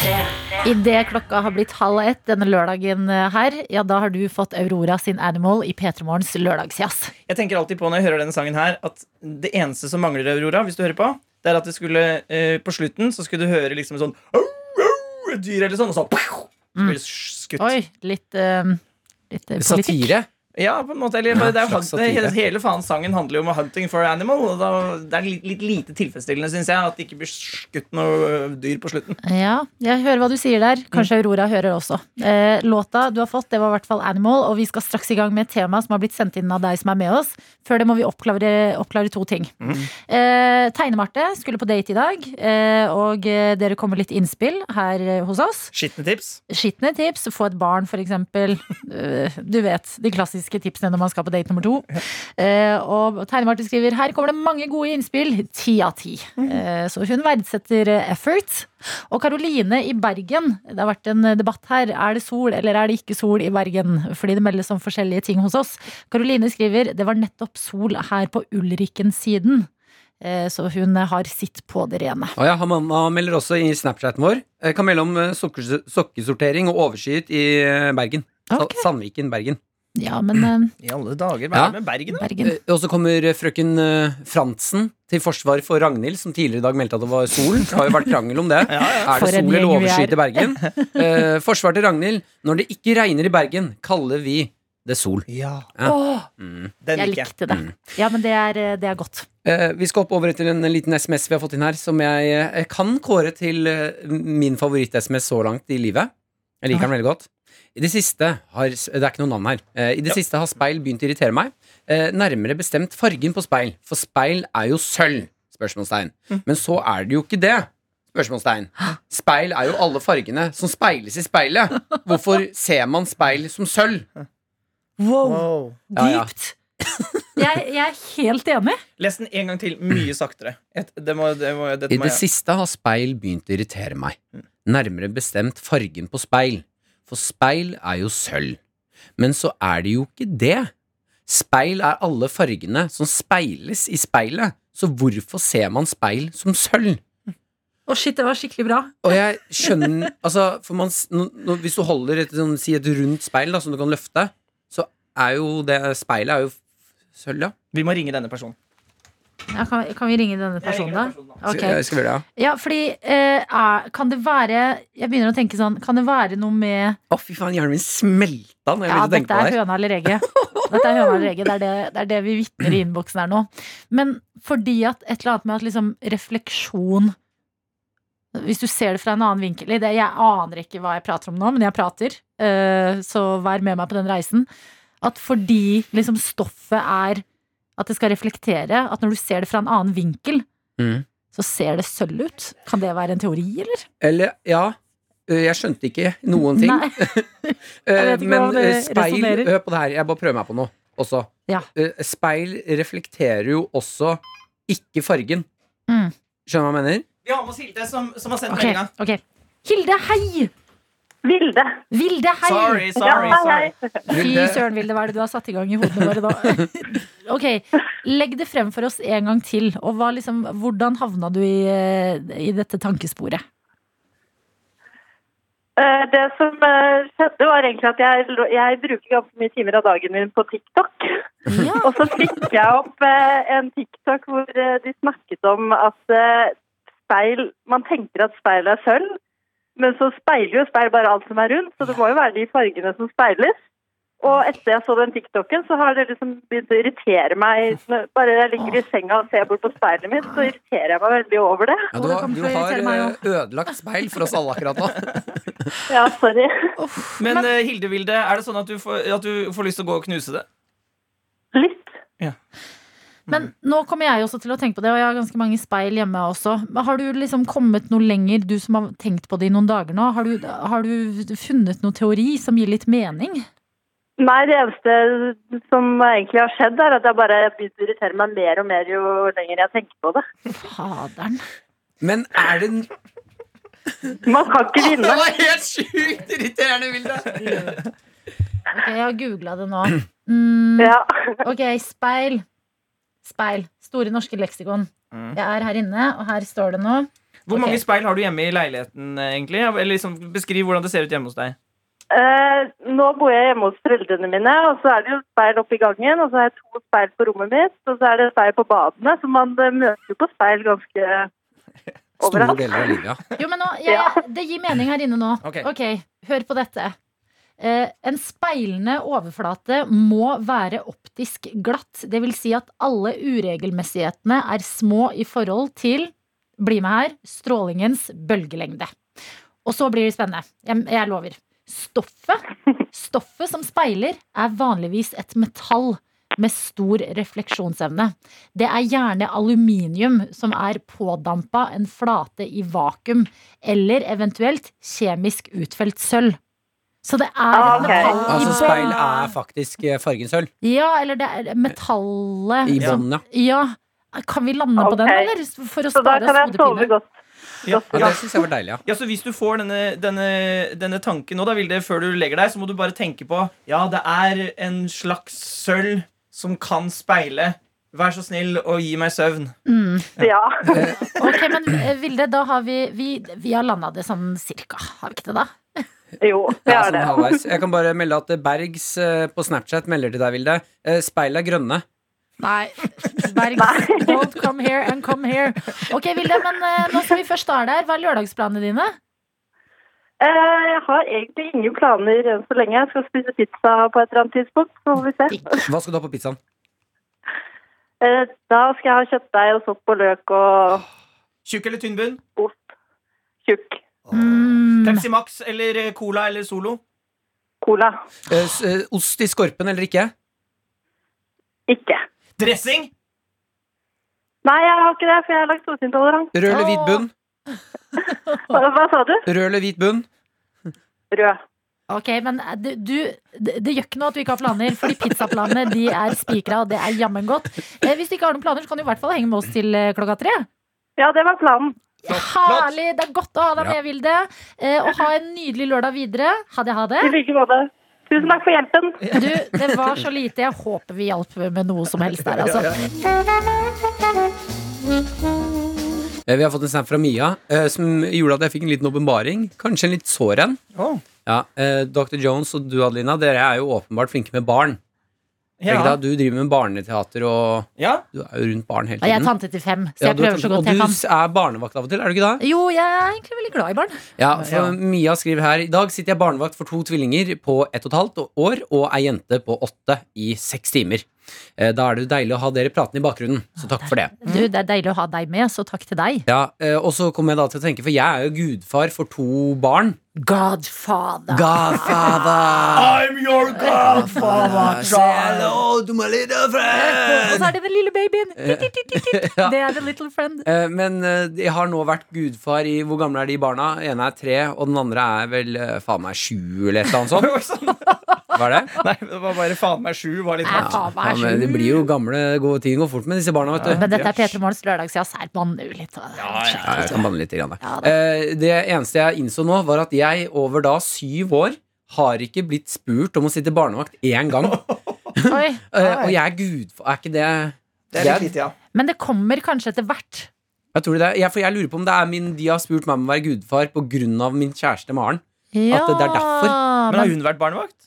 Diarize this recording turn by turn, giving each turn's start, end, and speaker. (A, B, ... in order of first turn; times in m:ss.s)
0:00.6-0:07.1 A
0:07.3-0:17.7 B
0:17.6-0:20.1 A
0:19.6-0:20.3 C
0:20.6-0:29.2 B
0:21.3-0:22.4 C
0:29.2-0:45.7 A
0:39.6-0:39.9 B
0:45.7-0:46.4 B
0:46.5-1:09.7 A
1:10.2-1:12.4 A
1:12.4-1:19.6 C
1:18.5-1:18.9 A
1:20.0-1:20.7 A
1:20.8-1:22.3 B
1:21.5-1:21.8 C
1:22.1-1:22.6 A
1:22.4-1:36.7 C
1:28.7-1:29.1 B
1:29.0-1:30.9 A
1:35.3-1:35.7 B
1:35.9-1:36.3 A
1:36.8-1:37.3 B
1:37.0-1:39.3 A
1:39.4-1:46.1 C
1:46.6-2:04.0 C
2:05.0-2:06.6 A
2:05.2-2:05.8 B
2:06.0-2:06.3 C
2:07.3-2:08.8 A
2:09.0-2:12.2 B
2:11.9-2:18.6 C
2:19.2-2:20.7 C
2:21.3-2:27.0 C
2:27.9-2:29.9 A
2:29.0-2:36.6 C
2:37.2-2:37.5 C
2:37.7-2:38.6 B
2:39.5-2:41.8 A
2:40.6-2:41.4 B
2:41.5-2:42.2 C
2:42.4-2:47.0 A
2:47.1-2:49.6 C
2:48.9-2:57.2 A
2:50.2-2:51.3 C
2:58.3-3:04.5 A
3:05.0-3:07.2 A
3:07.8-3:10.4 A
3:10.8-3:11.0 C
3:11.3-3:13.9 A
3:14.0-3:17.3 C
3:16.4-3:19.5 A
3:17.9-3:25.5 C
3:25.9-3:26.1 A
3:26.5-3:27.1 C
3:27.2-3:28.9 B
3:28.5-3:30.5 A
3:31.2-3:31.8 D
3:31.9-3:33.4 A
3:32.4-3:33.7 B
3:33.0-3:33.8 D
3:34.1-3:43.4 A
3:34.1-3:34.6 C
3:45.8-3:51.2 D
3:51.5-3:52.0 A
3:51.8-3:56.6 D
3:57.1-3:59.2 D
3:59.8-4:03.6 D
4:04.2-4:11.9 D
4:10.2-4:10.5 A
4:11.9-4:15.7 C
4:11.9-4:13.2 A
4:15.9-4:16.7 D
4:16.8-4:17.5 A
4:17.2-4:20.5 B
4:21.5-4:22.0 D
4:23.3-4:33.5 A
4:34.2-4:40.2 D
4:40.6-4:41.4 A
4:42.0-4:42.9 C
4:44.2-4:45.2 D
4:44.8-4:47.8 C
4:48.7-4:52.4 A
4:50.8-4:51.4 D
4:53.2-4:57.8 A
4:55.1-4:55.4 B
4:57.5-5:01.6 B
5:02.1-5:11.3 D
5:12.2-5:13.0 D
5:12.2-5:13.2 C
5:13.4-5:17.0 A
5:13.9-5:14.2 D
5:17.6-5:28.9 A
5:29.6-5:46.4 A
5:47.0-5:49.3 A
5:47.5-5:48.2 D
5:48.1-5:48.4 B
5:48.2-5:50.5 C
5:50.6-5:56.9 A
5:52.6-5:53.2 C
5:54.8-5:55.3 D
5:56.0-5:57.1 D
5:57.6-5:58.2 B
5:57.7-5:58.2 D
5:57.9-5:58.8 C
5:58.9-6:09.6 B
6:09.7-6:10.1 A
6:10.2-6:10.9 D
6:10.7-6:11.1 C
6:10.7-6:15.8 A
6:16.2-6:17.4 D
6:16.7-6:21.8 C
6:22.4-6:29.0 A
6:23.6-6:24.2 D
6:30.2-6:35.6 D
6:35.3-6:35.7 A
6:35.6-6:36.4 C
6:38.0-6:40.8 D
6:41.4-6:42.2 B
6:42.4-6:42.7 D
6:43.4-6:43.8 D
6:44.1-6:46.8 B
6:44.1-6:45.0 A
6:47.6-6:48.0 D
6:48.3-6:50.1 C
6:51.7-6:52.0 D
6:52.4-6:52.9 B
6:54.4-6:56.3 D
6:56.3-6:57.1 C
6:56.5-6:57.1 A
6:58.5-6:59.2 D
6:59.3-7:00.1 C
7:01.1-7:01.4 D
7:01.9-7:10.5 A
7:11.0-7:11.8 D
7:12.0-7:17.2 A
7:12.1-7:12.7 B
7:17.0-7:19.1 D
7:19.1-7:22.7 A
7:22.3-7:22.9 B
7:26.3-7:30.6 C
7:30.8-7:31.0 B
7:31.3-7:34.8 C
7:35.6-7:36.0 B
7:35.7-7:39.3 C
7:37.8-7:38.0 B
7:39.0-7:41.0 A
7:40.0-7:42.4 C
7:42.4-7:44.1 A
7:44.2-7:54.1 C
7:53.8-7:56.3 A
7:56.3-8:00.0 C
8:00.2-8:02.8 A
8:01.3-8:07.5 C
8:02.7-8:05.6 B
8:03.5-8:05.0 A
8:06.7-8:10.5 A
8:08.4-8:09.7 C
8:10.4-8:17.4 C
8:17.1-8:18.0 B
8:18.3-8:18.8 C
8:18.8-8:20.8 B
8:20.4-8:21.9 A
8:20.5-8:24.1 C
8:23.6-8:24.2 B
8:23.8-8:27.9 A
8:26.2-8:27.0 B
8:26.7-8:34.6 C
8:34.4-8:34.8 B
8:35.1-8:38.3 C
8:35.2-8:35.7 A
8:35.8-8:36.2 B
8:37.9-8:38.6 B
8:38.7-8:40.3 A
8:40.7-8:46.6 C
8:45.5-8:47.2 A
8:46.9-8:47.8 B